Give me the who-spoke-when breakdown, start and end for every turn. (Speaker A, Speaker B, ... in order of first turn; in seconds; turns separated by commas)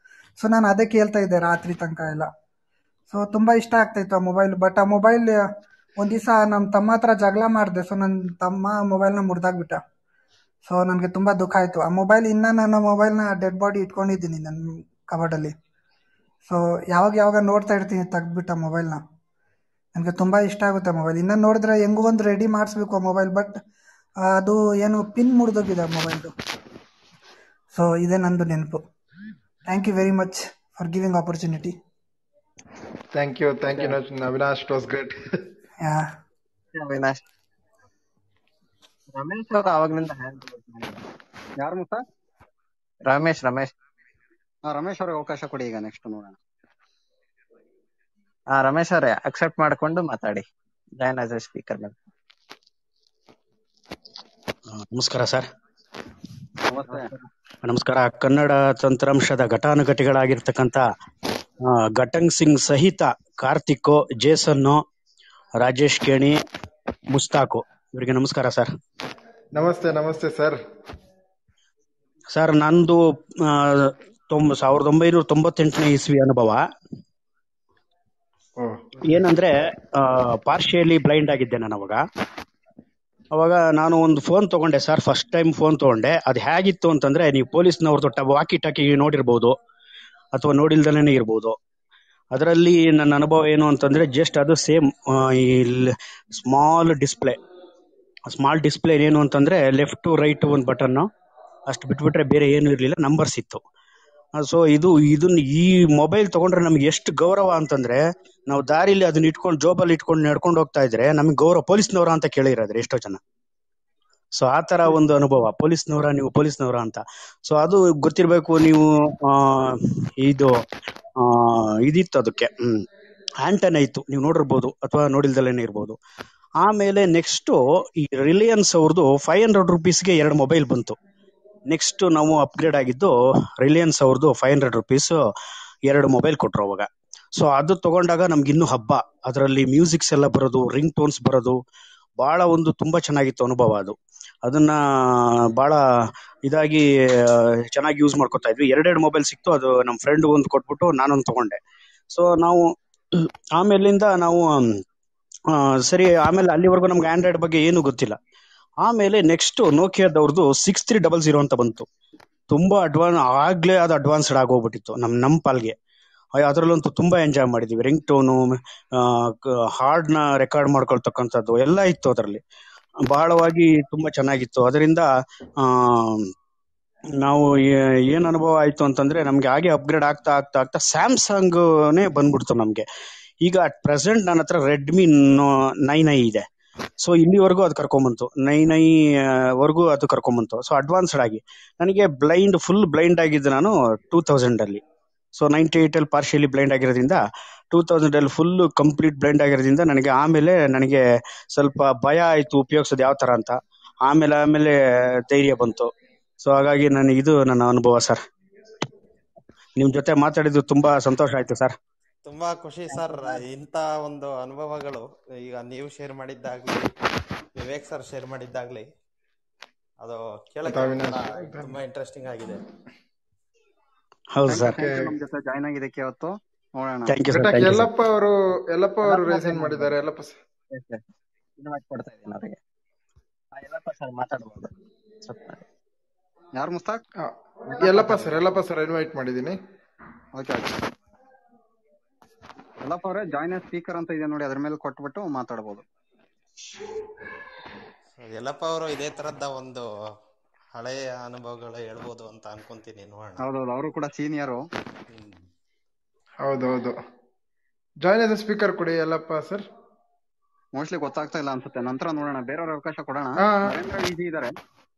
Speaker A: 0.4-2.3, Speaker A: 3.1-5.4, Speaker A: 6.0-9.8, Speaker A: 10.7-15.5, Speaker A: 16.5-19.0, Speaker A: 19.9-23.6, Speaker A: 24.2-26.3, Speaker A: 27.7-28.8, Speaker A: 29.7-31.8, Speaker B: 33.1-35.1, Speaker A: 35.8-36.1, Speaker C: 36.7-37.2, Speaker C: 39.1-41.0, Speaker D: 41.6-42.0, Speaker C: 43.0-43.7, Speaker D: 44.7-46.3, Speaker C: 48.5-50.4, Speaker C: 51.0-51.9, Speaker E: 54.7-55.5, Speaker D: 56.6-57.1, Speaker C: 56.9-57.2, Speaker E: 57.6-60.8, Speaker E: 61.6-64.8, Speaker E: 65.6-66.4, Speaker E: 67.1-68.7, Speaker B: 69.5-70.6, Speaker E: 72.3-76.6, Speaker B: 78.6-79.2, Speaker E: 79.0-82.0, Speaker E: 83.3-89.5, Speaker E: 90.3-91.5, Speaker E: 92.3-97.4, Speaker E: 98.3-101.1, Speaker E: 101.7-103.6, Speaker E: 104.4-113.2, Speaker E: 114.3-120.6, Speaker E: 121.2-122.8, Speaker E: 123.4-126.0, Speaker E: 126.6-130.9, Speaker E: 131.7-133.1, Speaker E: 133.6-135.2, Speaker E: 135.9-141.6, Speaker E: 142.2-145.8, Speaker E: 146.4-151.6, Speaker E: 152.1-152.7, Speaker E: 153.2-154.8, Speaker E: 155.5-158.2, Speaker E: 158.8-161.8, Speaker E: 162.5-165.7, Speaker E: 166.4-168.4, Speaker E: 169.0-172.4, Speaker E: 173.1-175.1, Speaker E: 175.6-176.3, Speaker E: 177.2-182.8, Speaker E: 183.4-186.4, Speaker E: 187.0-194.8, Speaker E: 195.3-197.2, Speaker E: 197.7-201.0, Speaker E: 201.5-204.7, Speaker E: 205.3-205.9, Speaker E: 206.4-208.2, Speaker E: 209.8-211.7, Speaker F: 212.2-216.9, Speaker C: 212.9-213.4, Speaker F: 217.6-218.9, Speaker F: 220.0-222.6, Speaker B: 220.6-221.7, Speaker E: 224.3-224.8, Speaker D: 224.5-227.1, Speaker B: 224.6-225.1, Speaker E: 227.1-227.9, Speaker B: 227.3-230.3, Speaker C: 229.0-229.9, Speaker C: 230.7-231.0, Speaker C: 231.6-232.6, Speaker C: 233.5-234.7, Speaker C: 235.2-235.6, Speaker D: 236.6-237.0, Speaker B: 237.2-239.6, Speaker C: 237.7-238.4, Speaker D: 240.3-240.7, Speaker D: 242.8-245.8, Speaker F: 248.2-249.9, Speaker F: 250.7-253.4, Speaker D: 253.4-254.6, Speaker B: 256.4-256.9, Speaker B: 258.0-259.6, Speaker D: 260.8-264.5, Speaker B: 263.4-263.8